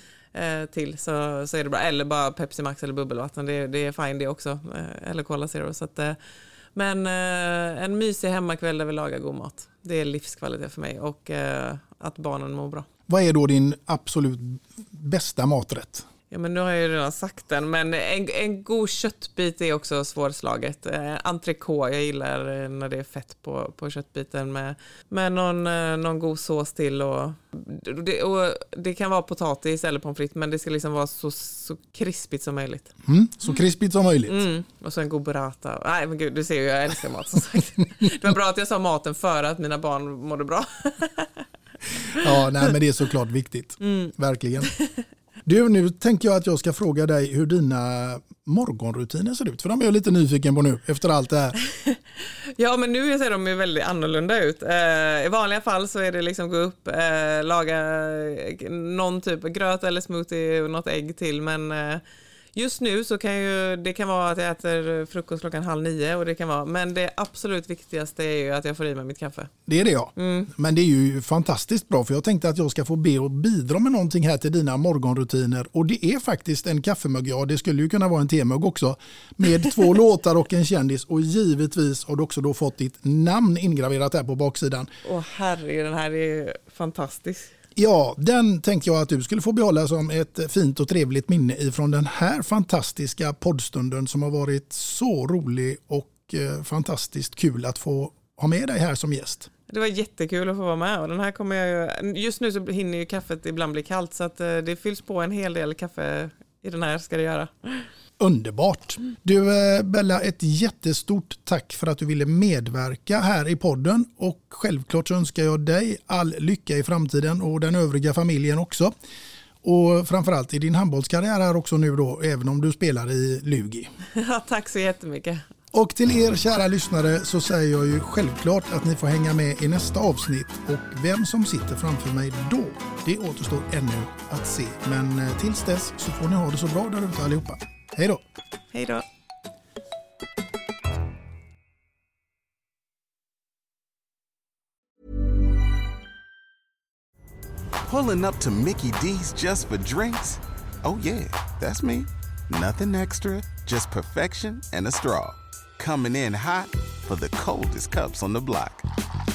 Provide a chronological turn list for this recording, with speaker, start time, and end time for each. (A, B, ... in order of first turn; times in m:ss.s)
0:00.3-0:06.2 A
0:06.8-0:12.9 A
0:13.1-0:16.1 B
0:16.3-0:32.9 A
0:33.0-0:34.4 B
0:34.3-0:41.3 A
0:42.2-0:44.7 B
0:43.8-0:44.1 A
0:45.4-0:51.6 B
0:52.6-1:02.0 A
1:02.6-1:09.5 A
1:09.7-1:24.9 B
1:10.2-1:10.5 A
1:25.0-1:27.5 A
1:27.8-1:39.5 B
1:39.7-1:47.8 A
1:48.2-1:58.9 B
1:59.6-2:03.9 B
2:04.2-2:05.4 A
2:05.7-2:18.2 B
2:18.7-2:19.0 A
2:27.9-2:38.9 C